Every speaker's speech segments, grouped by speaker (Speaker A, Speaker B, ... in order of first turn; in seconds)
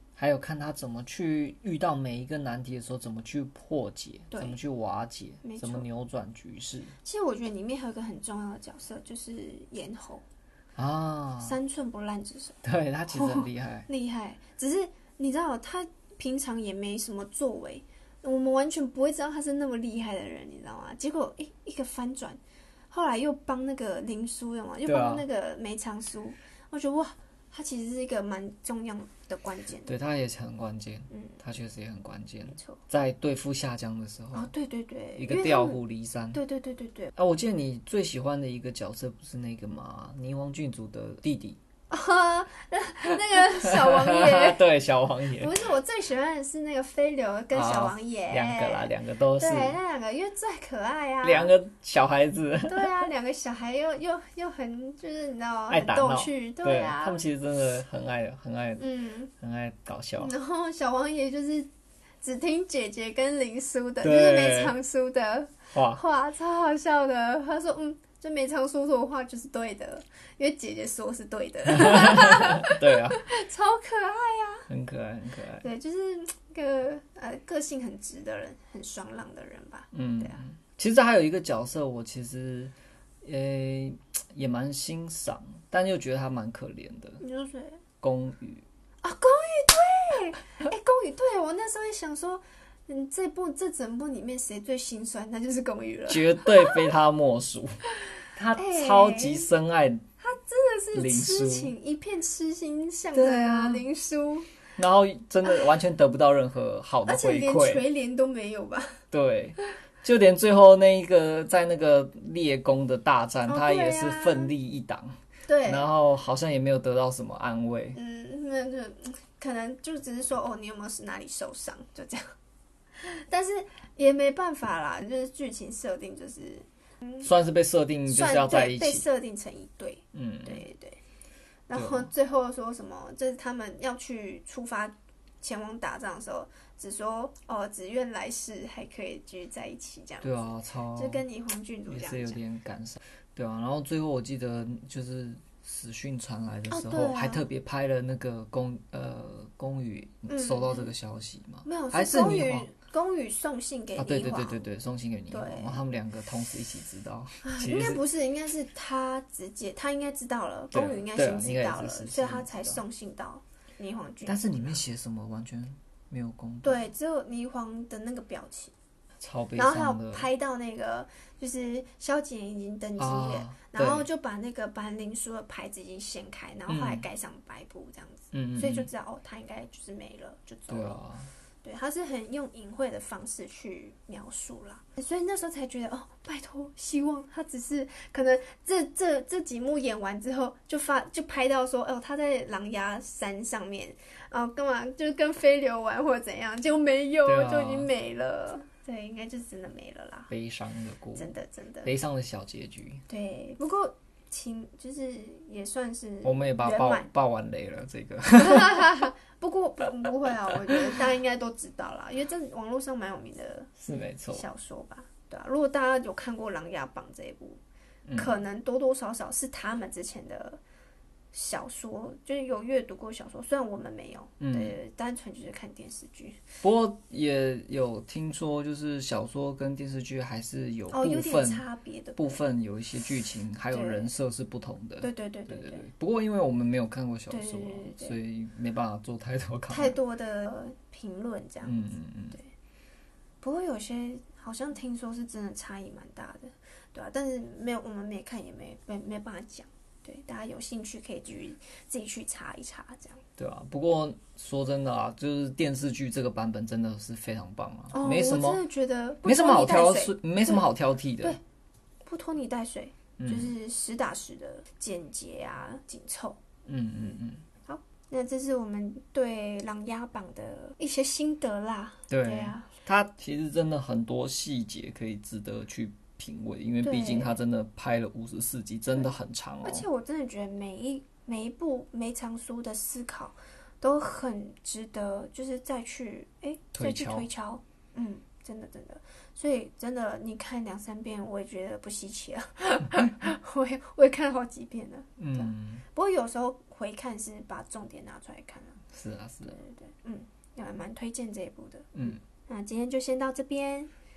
Speaker A: 0.2-7.0, 10.8-11.6, 12.6-13.9, 24.9-25.3, 29.9-34.5, 35.2-36.4, 37.1-41.6, 43.0-45.6, 47.5-49.8, 51.2-53.1, 55.7-58.9, 59.4-60.4, 64.0-64.8, 65.7-66.0, 71.7-73.2, 74.7-75.7, 79.9-87.2, 88.0-88.7, 96.1-100.1, 100.9-101.7, 103.1-103.8, 104.8-107.8, 109.1-118.0, 127.2-129.1, 130.1-130.6, 131.7-132.1, 140.2-141.2, 141.9-152.7, 154.0-158.0, 160.7-162.8, 164.3-166.9, 169.2-170.3, 173.0-174.1, 176.7-177.0, 178.3-178.9, 180.7-181.3, 197.2-197.9, 200.3-201.3, 201.8-203.0, 206.2-209.1, 213.8-214.4, 218.1-218.4, 224.4-224.8, 226.6-231.7, 232.2-240.0, 241.6-242.4, 253.4-258.6, 259.2-261.4, 263.2-263.5, 266.7-267.4, 272.1-279.9, 286.7-287.3, 295.2-295.8, 298.9-299.6, 301.9-302.2
Speaker B: 4.3-4.6, 5.4-5.9, 7.0-10.2, 11.4-12.6, 13.1-22.4, 22.9-29.9, 31.1-31.4, 32.5-32.8, 34.3-35.8, 36.3-37.1, 41.9-44.6, 45.4-51.5, 52.7-57.2, 58.8-59.3, 60.2-61.7, 62.2-74.7, 75.6-80.4, 87.2-87.8, 89.0-96.8, 98.6-99.5, 100.2-104.5, 107.0-109.0, 113.5-114.5, 115.5-115.9, 118.0-122.2, 123.0-127.3, 128.1-131.0, 131.7-142.4, 146.7-147.5, 150.3-150.9, 151.7-154.7, 155.3-155.8, 157.4-164.8, 166.6-168.7, 169.6-181.0, 181.6-200.3, 201.2-201.9, 203.1-207.1, 208.4-213.7, 214.3-217.6, 218.2-220.6, 221.3-226.4, 230.9-232.4, 233.7-234.1, 235.0-235.8, 237.3-238.2, 239.7-241.8, 243.4-253.2, 257.9-260.7, 262.0-266.4, 267.7-272.7, 276.8-277.3, 279.6-298.8, 299.4-303.9